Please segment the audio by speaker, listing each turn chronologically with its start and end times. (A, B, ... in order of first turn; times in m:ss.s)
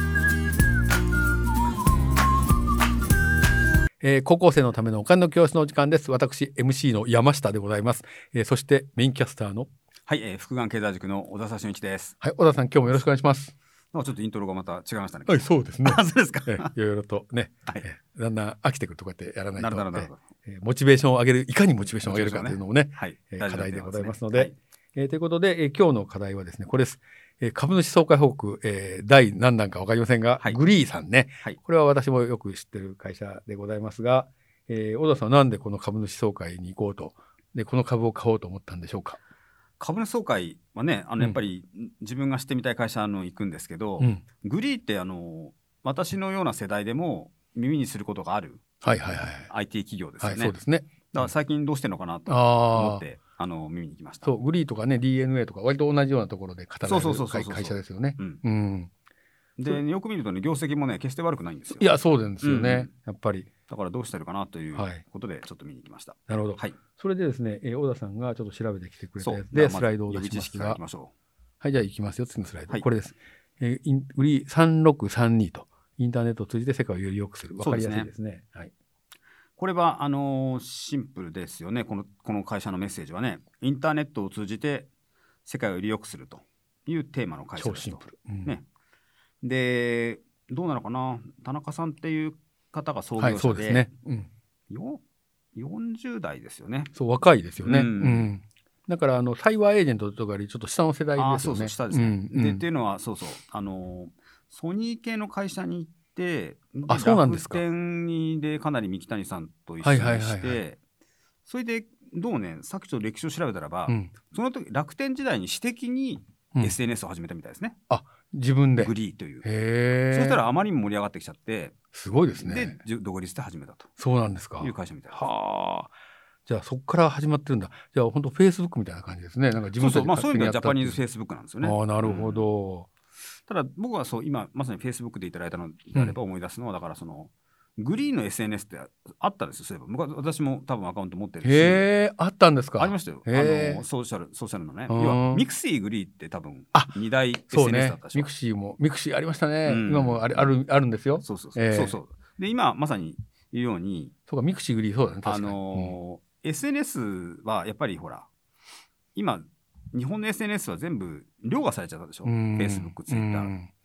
0:04.0-0:09.7 A
0:10.1-0:12.2 B
0:12.2-0:13.5 A
0:13.9-0:16.7 B
0:15.3-0:39.2 A
0:19.6-0:20.2 B
0:22.0-0:24.6 B
0:39.8-0:48.6 B
0:48.8-0:49.5 A
0:49.5-0:50.6 B
0:50.2-0:51.3 A
0:51.1-0:54.3 B
0:52.3-0:53.0 A
0:54.2-0:58.9 A
0:56.9-0:58.4 B
0:59.6-1:02.9 B
1:01.7-1:03.5 A
1:03.7-1:06.8 B
1:04.8-1:05.0 A
1:06.3-1:10.8 A
1:09.2-1:11.1 B
1:11.6-1:18.7 A
1:17.6-1:18.1 B
1:19.6-1:24.9 B
1:25.4-1:28.7 B
1:27.6-1:28.5 A
1:29.4-1:33.9 B
1:33.2-1:34.3 A
1:34.7-1:35.0 B
1:35.6-1:36.9 B
1:37.0-1:42.6 A
1:37.6-1:38.3 B
1:41.2-1:50.8 B
1:46.9-1:47.6 A
1:49.8-1:50.6 A
1:51.5-1:57.8 B
1:53.9-1:54.1 A
1:57.9-1:58.9 A
1:58.8-1:59.5 B
1:59.4-2:00.4 A
2:00.1-2:01.7 B
2:01.9-2:02.8 A
2:02.4-2:03.9 B
2:04.0-2:05.9 A
2:04.6-2:05.3 B
2:06.5-2:11.0 A
2:09.8-2:12.5 B
2:11.6-2:12.9 A
2:13.5-2:21.9 B
2:21.4-2:23.8 A
2:22.8-2:28.3 B
2:24.9-2:25.4 A
2:26.7-2:32.0 A
2:29.6-2:30.5 B
2:31.2-2:34.1 B
2:34.3-2:36.0 A
2:35.2-2:38.3 B
2:39.2-2:43.5 B
2:42.2-2:43.7 A